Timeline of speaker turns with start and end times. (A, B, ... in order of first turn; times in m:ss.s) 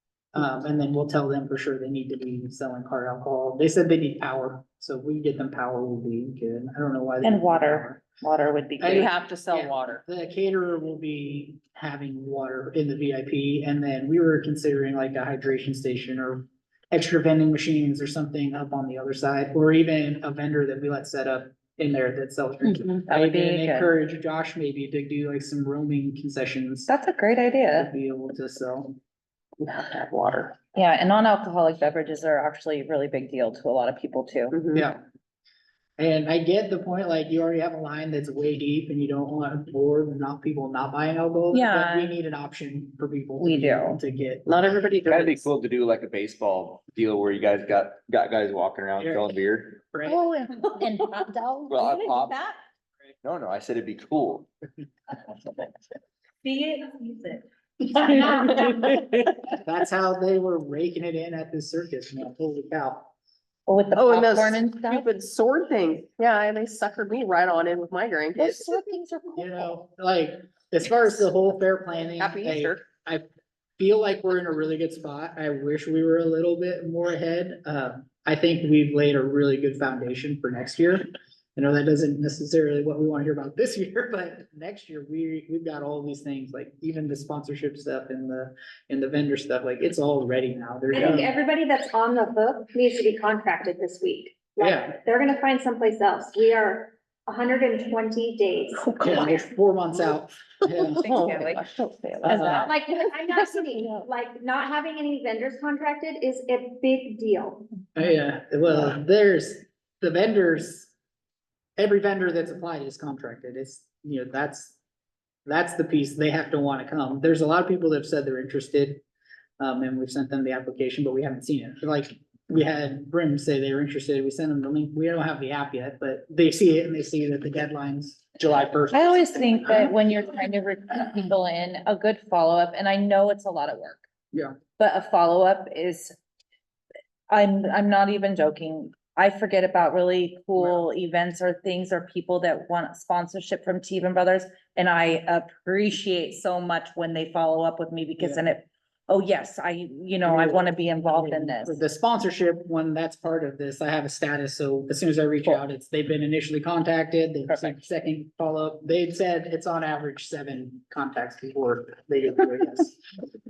0:00.3-0:08.0 A
0:07.2-0:09.1 B
0:08.8-0:26.9 A
0:08.9-0:10.0 C
0:23.1-0:23.9 B
0:26.9-0:27.9 B
0:27.7-0:29.0 A
0:29.6-0:30.6 C
0:30.8-0:34.6 B
0:34.5-0:34.9 C
0:34.7-0:35.0 A
0:36.0-0:44.5 A
0:41.5-0:42.1 B
0:43.4-0:44.0 B
0:44.5-0:45.5 C
0:45.0-0:49.8 D
0:49.0-0:49.3 A
0:49.9-0:50.2 A
0:50.1-0:51.8 B
0:51.7-0:52.4 D
0:53.2-0:54.5 D
0:56.4-0:57.4 B
0:58.0-0:58.5 B
0:59.6-1:03.1 A
1:03.7-1:05.1 B
1:03.9-1:08.8 C
1:08.4-1:09.8 B
1:09.4-1:13.2 A
1:12.2-1:12.8 C
1:13.8-1:31.3 A
1:30.9-1:39.2 E
1:34.6-1:34.9 A
1:39.0-1:41.0 A
1:40.8-1:41.6 B
1:41.0-1:42.7 C
1:42.2-1:42.7 B
1:42.3-1:42.7 A
1:42.6-1:47.7 E
1:43.2-1:44.0 C
1:47.9-1:50.9 A
1:51.8-1:54.8 A
1:55.5-1:59.0 A
1:59.6-2:10.0 A
2:08.9-2:14.0 B
2:14.8-2:16.2 B
2:17.3-2:31.8 B
2:20.6-2:20.8 A
2:30.2-2:43.0 A
2:37.5-2:37.8 B